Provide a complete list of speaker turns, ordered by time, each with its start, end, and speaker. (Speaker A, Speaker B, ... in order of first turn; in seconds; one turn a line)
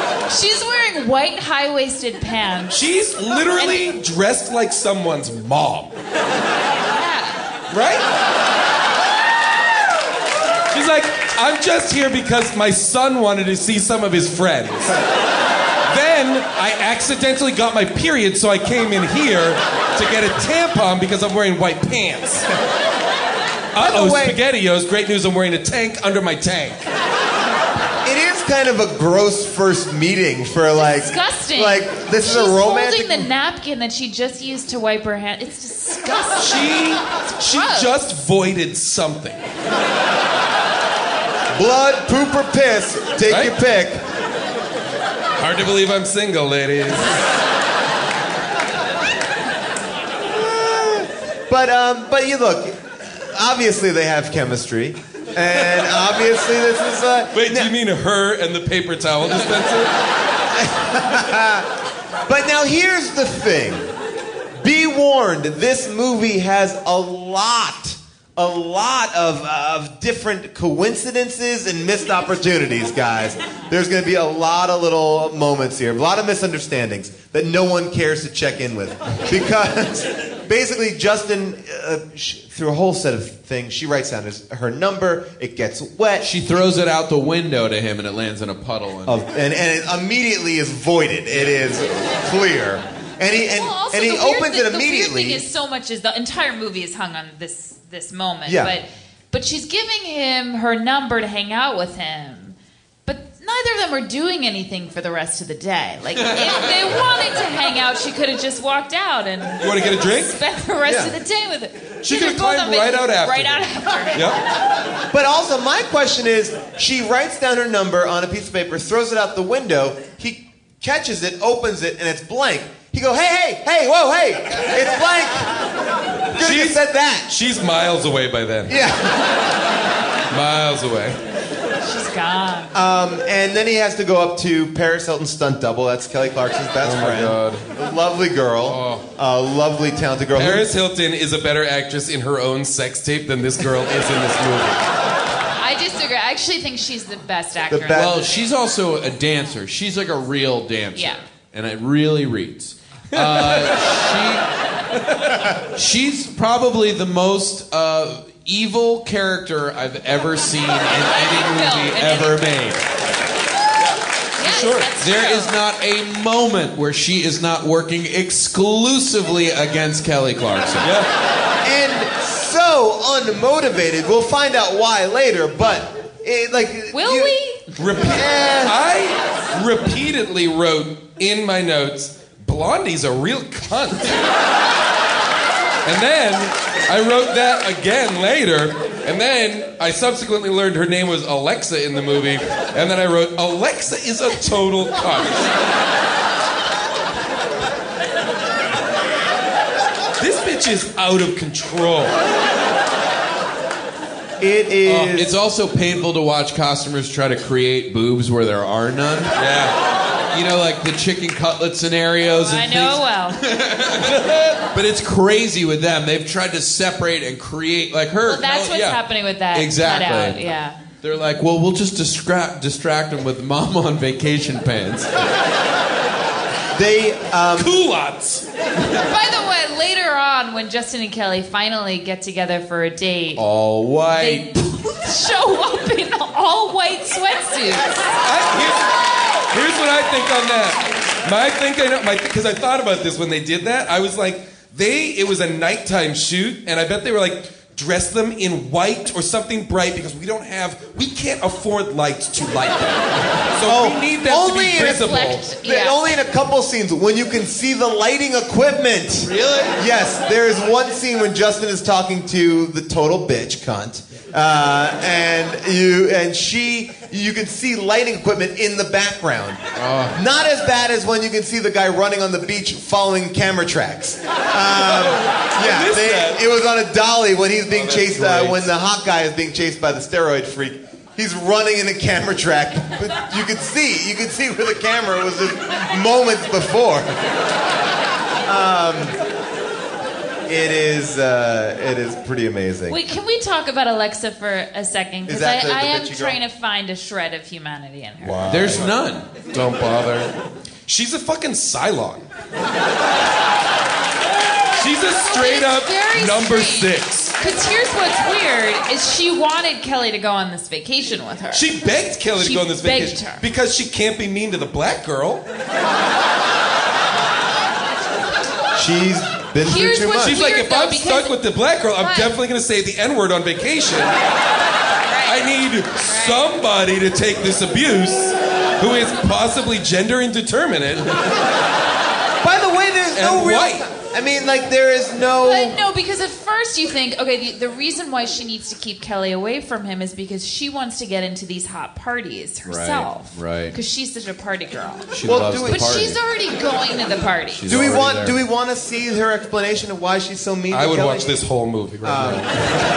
Speaker A: 0.3-2.8
Speaker B: 2.7-5.9
Speaker A: 3.5-3.9
Speaker A: 6.9-7.4
Speaker B: 7.7-8.0
Speaker B: 10.7-15.0
Speaker B: 15.9-22.4
Speaker B: 23.7-26.8
Speaker C: 23.8-24.4
Speaker C: 28.0-33.3
Speaker A: 30.8-36.5
Speaker B: 36.4-39.4
Speaker A: 37.4-37.9
Speaker C: 41.5-44.0
Speaker B: 43.3-43.5
Speaker B: 45.4-47.2
Speaker C: 50.3-57.7
Speaker B: 57.3-59.9
Speaker C: 60.5-61.7
Speaker C: 62.2-63.9
Speaker C: 64.6-86.3
Speaker D: 86.2-89.2
Speaker C: 89.0-95.5
Speaker A: 93.4-114.4
Speaker C: 98.5-98.7
Speaker B: 109.6-110.3
Speaker C: 110.8-111.1
Speaker B: 112.0-114.4
Speaker C: 115.1-125.5
Speaker C: 126.3-127.3
Speaker B: 126.4-128.8
Speaker C: 128.7-129.3
Speaker B: 130.3-131.2
Speaker A: 131.8-132.7
Speaker C: 132.7-140.7
Speaker B: 136.8-137.7
Speaker B: 138.7-139.0
Speaker B: 140.3-144.8
Speaker A: 145.6-148.2
Speaker C: 147.7-148.3
Speaker D: 147.9-154.4
Speaker A: 150.9-151.2
Speaker B: 153.2-153.7
Speaker D: 155.7-162.8
Speaker A: 161.0-162.7
Speaker B: 163.9-164.9
Speaker A: 164.4-165.6
Speaker D: 165.0-170.9
Speaker B: 170.8-171.1
Speaker C: 171.6-177.3
Speaker A: 176.9-177.6
Speaker B: 177.8-184.3
Speaker C: 177.9-178.8
Speaker B: 185.8-195.5
Speaker B: 200.2-202.2
Speaker C: 204.4-205.3
Speaker D: 204.8-209.4
Speaker B: 209.4-209.7
Speaker D: 210.3-220.4
Speaker A: 212.4-213.4
Speaker A: 218.2-220.8
Speaker D: 221.0-225.1
Speaker C: 226.7-227.7
Speaker B: 227.6-228.4
Speaker A: 229.0-233.4
Speaker D: 233.3-234.5
Speaker A: 234.2-238.0
Speaker B: 238.2-238.9
Speaker B: 239.5-255.4
Speaker C: 253.6-269.6
Speaker A: 254.8-256.1
Speaker D: 259.3-259.8
Speaker D: 269.8-270.2
Speaker C: 270.1-287.1
Speaker B: 274.7-276.4
Speaker B: 277.7-278.7
Speaker C: 288.4-289.2
Speaker C: 290.5-293.0
Speaker A: 292.9-298.5
Speaker C: 295.2-296.4
Speaker B: 298.2-298.9
Speaker D: 298.5-299.3
Speaker B: 299.5-300.3
Speaker B: 300.9-302.3
Speaker B: 304.7-307.4
Speaker A: 305.2-311.7
Speaker B: 311.5-315.4
Speaker A: 312.4-313.4
Speaker C: 318.7-320.4
Speaker A: 319.6-321.4
Speaker B: 320.2-324.1
Speaker A: 322.0-322.3
Speaker A: 325.1-325.5
Speaker B: 325.2-331.2
Speaker A: 326.0-326.5
Speaker C: 332.4-335.8
Speaker B: 333.1-333.9
Speaker A: 335.4-347.7
Speaker D: 342.6-343.8
Speaker D: 345.1-346.2
Speaker C: 345.2-346.1
Speaker D: 347.5-348.4
Speaker C: 347.7-351.4
Speaker B: 350.7-352.6
Speaker C: 352.0-352.6